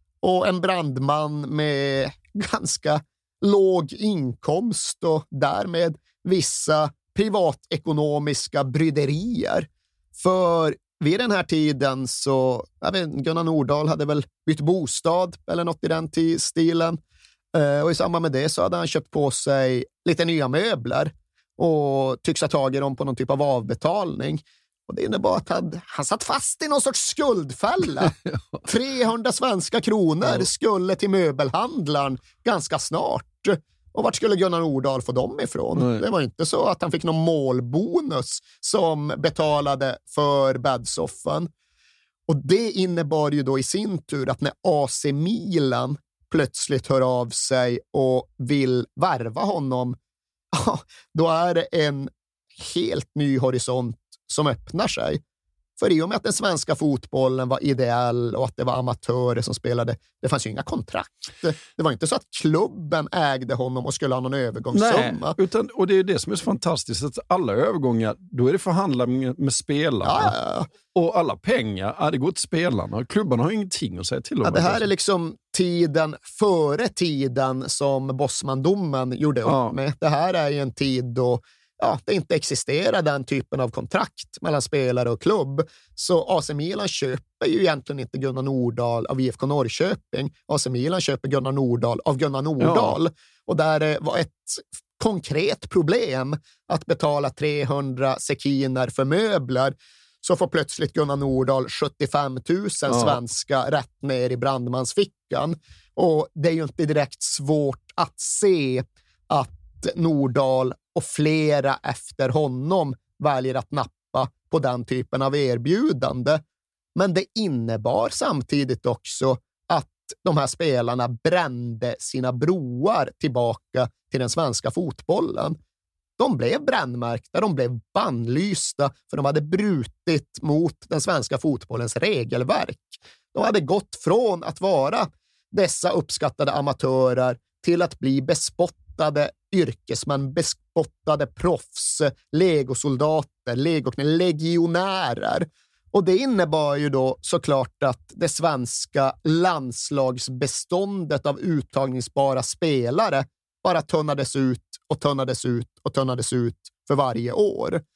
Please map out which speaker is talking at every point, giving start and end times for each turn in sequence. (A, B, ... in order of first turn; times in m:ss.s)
0:00.2-0:17.0 A
0:17.5-0:41.5 A
0:35.8-0:36.0 B
0:42.3-0:50.0 A
0:50.5-0:55.2 A
0:55.8-1:05.4 A
1:04.7-1:10.3 B
1:10.0-1:10.7 A
1:10.9-1:14.8 B
1:14.4-1:56.4 A
1:19.4-1:19.7 B
1:32.6-1:33.0 B
1:42.9-1:43.2 B
1:57.0-2:05.6 A
2:06.2-2:37.8 A